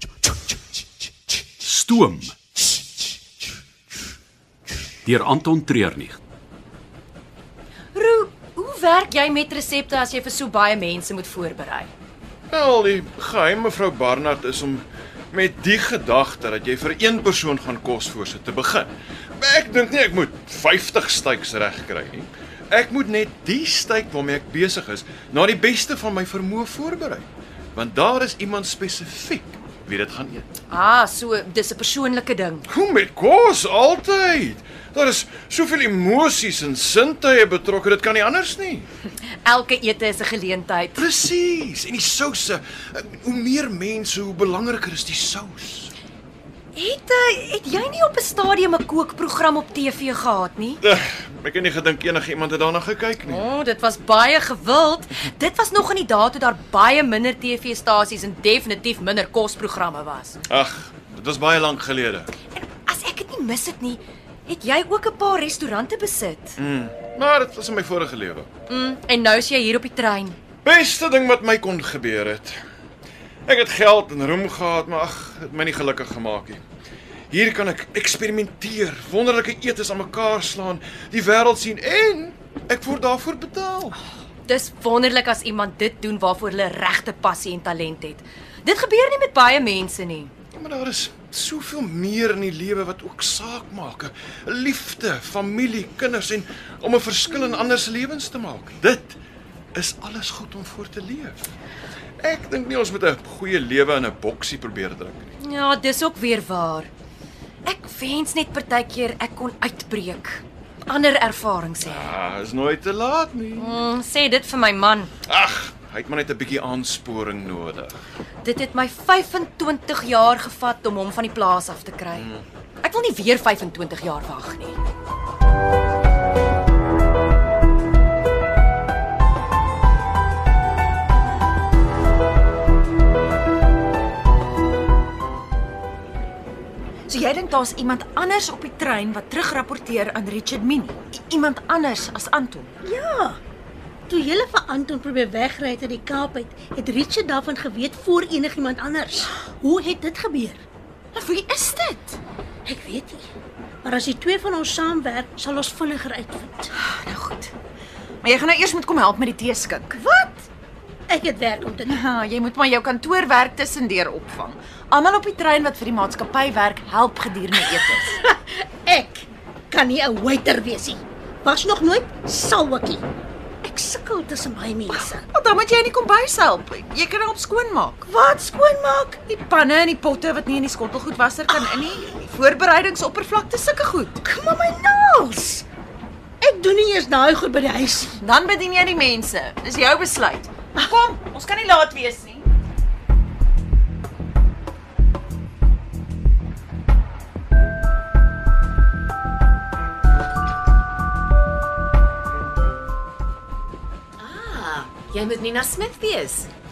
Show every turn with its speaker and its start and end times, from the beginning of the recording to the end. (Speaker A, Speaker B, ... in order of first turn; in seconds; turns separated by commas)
Speaker A: 1.6-2.4, Speaker A: 5.0-6.2, Speaker B: 7.9-11.9, Speaker C: 12.5-30.5, Speaker B: 30.7-32.7, Speaker C: 32.7-38.9, Speaker B: 39.4-41.0, Speaker C: 41.0-45.9, Speaker B: 46.8-50.8, Speaker C: 50.8-53.5, Speaker B: 53.2-60.4, Speaker C: 60.5-62.3, Speaker B: 62.5-66.6, Speaker C: 66.6-68.5, Speaker B: 68.7-70.4, Speaker C: 70.6-72.6, Speaker C: 73.5-76.6, Speaker C: 77.3-84.0, Speaker B: 84.5-90.3, Speaker C: 90.5-99.2, Speaker C: 99.7-101.5, Speaker C: 102.2-105.3, Speaker B: 105.4-106.9, Speaker B: 107.7-112.1, Speaker C: 111.8-113.9, Speaker B: 113.6-115.1, Speaker C: 115.3-118.0, Speaker B: 118.4-122.3, Speaker C: 122.2-122.4, Speaker B: 122.8-124.8, Speaker D: 137.1-142.7, Speaker E: 142.8-143.4, Speaker E: 144.1-150.6, Speaker D: 151.1-152.2, Speaker E: 152.7-153.2, Speaker E: 153.8-156.7, Speaker D: 156.8-157.5, Speaker D: 158.2-160.0, Speaker E: 160.0-160.5, Speaker E: 161.1-162.0, Speaker D: 161.8-168.2, Speaker E: 168.1-173.0, Speaker E: 173.6-175.2, Speaker D: 174.9-178.1, Speaker E: 178.1-179.2, Speaker D: 179.3-184.2, Speaker E: 184.2-185.7, Speaker E: 186.4-188.2, Speaker D: 188.2-192.5, Speaker F: 204.2-206.5